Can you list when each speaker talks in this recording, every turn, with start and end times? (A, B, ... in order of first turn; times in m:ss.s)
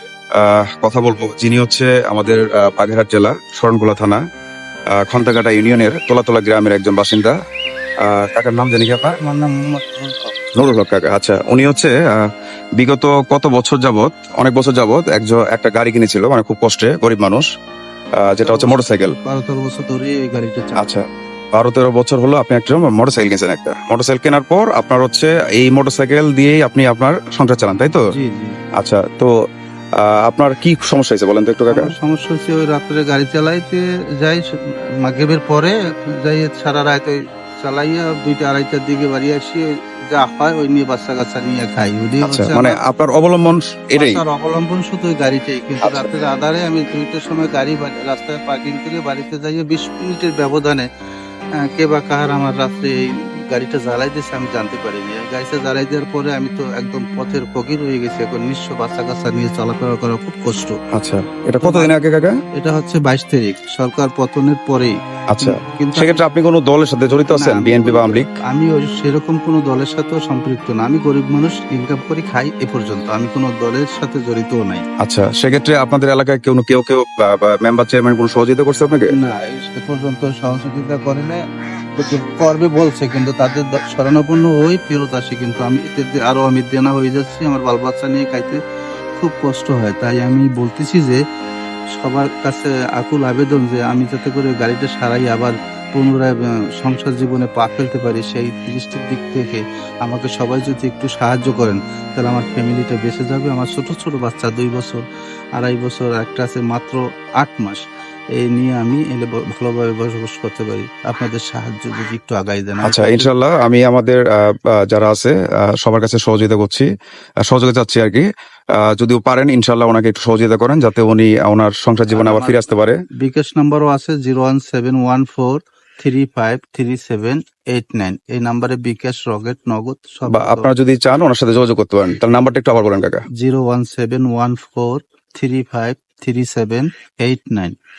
0:00.4-0:04.2 A
0:05.0-0:07.4 A
0:08.0-0:09.2 A
0:09.2-0:10.3 B
0:10.6-0:12.2 A
0:12.8-0:17.4 A
0:18.2-0:19.2 A
0:18.4-0:20.9 B
0:20.8-0:28.0 A
0:28.1-0:28.6 B
0:28.8-0:29.3 A
0:30.0-0:31.9 A
0:31.7-0:42.8 B
0:42.2-0:44.2 A
0:44.0-0:50.9 B
0:51.6-1:00.8 B
1:00.9-1:02.4 A
1:01.6-1:01.9 B
1:02.6-1:06.2 B
1:05.3-1:08.3 A
1:07.3-1:14.8 B
1:15.0-1:19.1 A
1:19.1-1:21.4 B
1:22.0-1:28.6 B
1:29.2-1:31.2 B
1:31.9-1:45.0 B
1:45.6-1:47.8 B
1:48.3-1:53.3 B
1:52.8-1:56.9 A
1:57.5-1:58.2 A
1:58.8-2:03.0 A
2:02.1-2:02.6 B
2:03.2-2:10.7 B
2:10.3-2:13.2 A
2:13.4-2:17.8 B